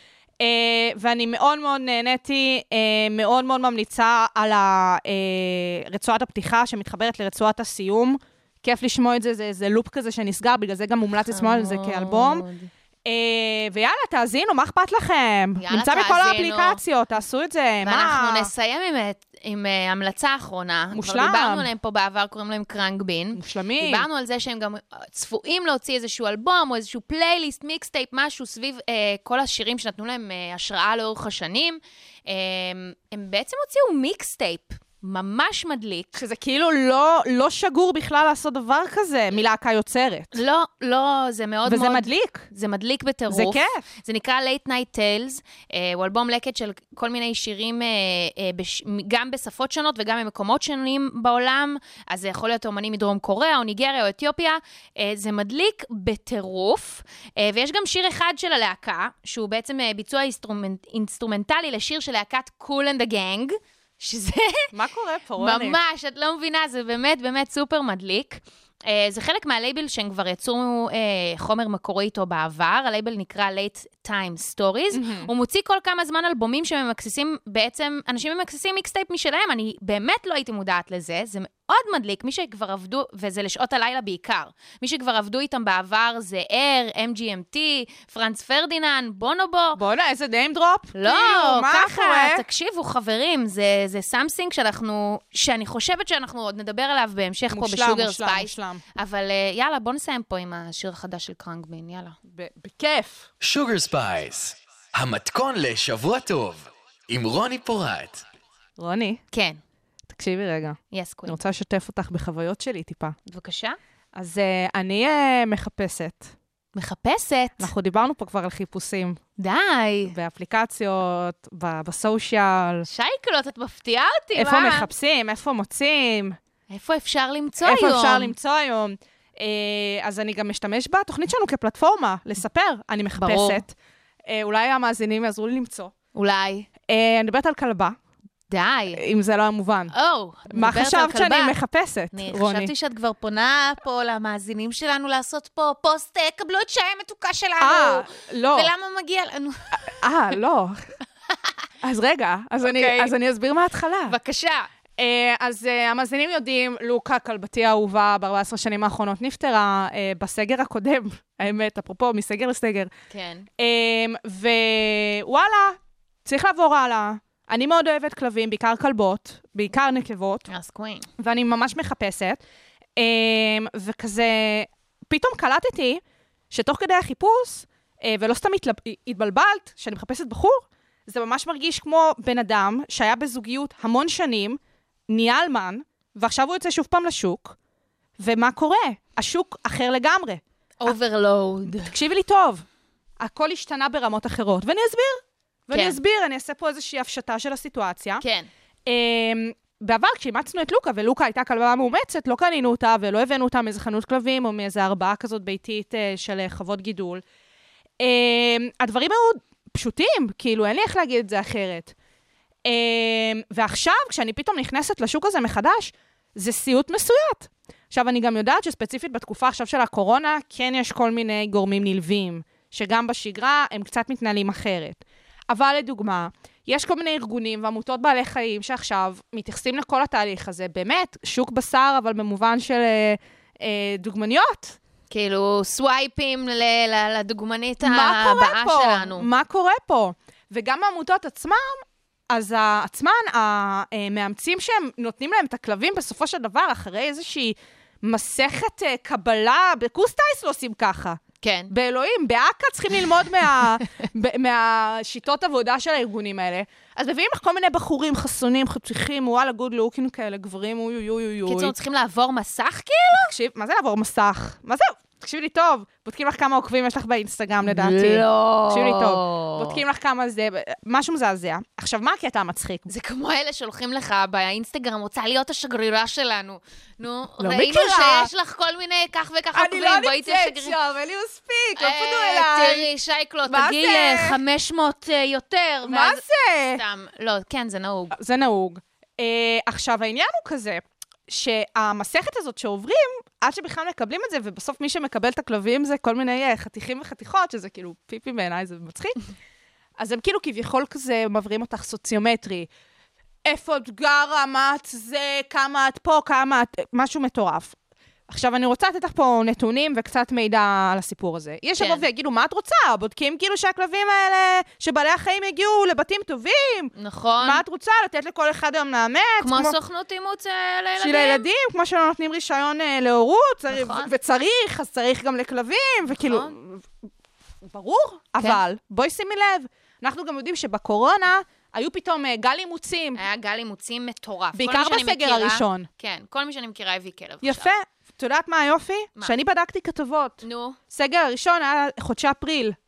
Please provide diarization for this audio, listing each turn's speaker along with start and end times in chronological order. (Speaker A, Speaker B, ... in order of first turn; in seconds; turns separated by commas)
Speaker A: 0.4-12.4, Speaker B: 11.3-12.7, Speaker A: 13.0-18.5, Speaker B: 15.6-16.8, Speaker B: 17.8-36.2, Speaker A: 20.9-21.7, Speaker A: 23.3-24.1, Speaker A: 36.1-40.3, Speaker B: 40.3-64.7, Speaker A: 41.6-42.5, Speaker A: 43.3-43.8, Speaker A: 64.7-65.8, Speaker B: 65.4-89.8, Speaker A: 74.9-75.3, Speaker A: 89.8-92.4, Speaker B: 90.9-102.2, Speaker A: 97.5-98.8, Speaker A: 102.3-103.3, Speaker C: 103.4-108.2, Speaker A: 108.8-109.2, Speaker B: 109.3-109.6, Speaker A: 110.1-113.1, Speaker B: 110.9-111.4, Speaker B: 113.2-113.8, Speaker A: 114.1-116.3, Speaker B: 116.7-117.7, Speaker A: 117.6-119.2, Speaker B: 119.4-120.1, Speaker A: 120.1-122.9, Speaker B: 122.8-124.9, Speaker A: 124.3-126.4, Speaker B: 126.7-128.3, Speaker A: 127.6-133.7, Speaker B: 133.2-133.6, Speaker A: 134.2-135.9, Speaker B: 136.1-136.7, Speaker A: 136.9-137.9, Speaker B: 138.5-139.0, Speaker A: 138.9-139.9, Speaker B: 139.9-141.5, Speaker A: 140.5-142.7, Speaker B: 142.1-150.0, Speaker A: 147.6-148.7, Speaker A: 149.9-150.8, Speaker A: 151.8-154.1, Speaker B: 152.6-153.1, Speaker B: 154.1-154.7, Speaker A: 155.0-162.9, Speaker B: 163.1-163.5, Speaker A: 163.6-170.5, Speaker B: 170.5-171.1, Speaker A: 171.2-172.4, Speaker A: 173.0-187.6, Speaker A: 188.2-190.9, Speaker B: 190.8-191.9, Speaker A: 191.8-192.6, Speaker A: 193.2-198.2, Speaker B: 195.7-196.0, Speaker B: 198.2-198.5, Speaker A: 198.8-207.2, Speaker A: 208.0-211.9, Speaker A: 212.6-234.8, Speaker B: 235.1-239.3, Speaker A: 237.8-261.7, Speaker B: 251.4-251.7, Speaker B: 261.4-263.3, Speaker A: 263.2-272.9, Speaker B: 267.6-269.8, Speaker B: 272.9-280.8, Speaker A: 277.4-278.3, Speaker A: 279.5-282.9, Speaker B: 281.8-288.1, Speaker A: 283.5-284.4, Speaker A: 285.8-286.8, Speaker A: 288.1-299.2, Speaker A: 300.0-302.7, Speaker A: 303.4-307.8, Speaker A: 308.3-319.8, Speaker B: 311.8-312.0, Speaker B: 316.9-317.6, Speaker B: 319.4-321.4, Speaker A: 321.0-326.9, Speaker B: 323.7-324.1, Speaker B: 326.1-326.5, Speaker A: 327.6-333.2, Speaker B: 333.1-337.7, Speaker A: 334.5-335.9, Speaker A: 337.4-342.8, Speaker B: 340.4-340.8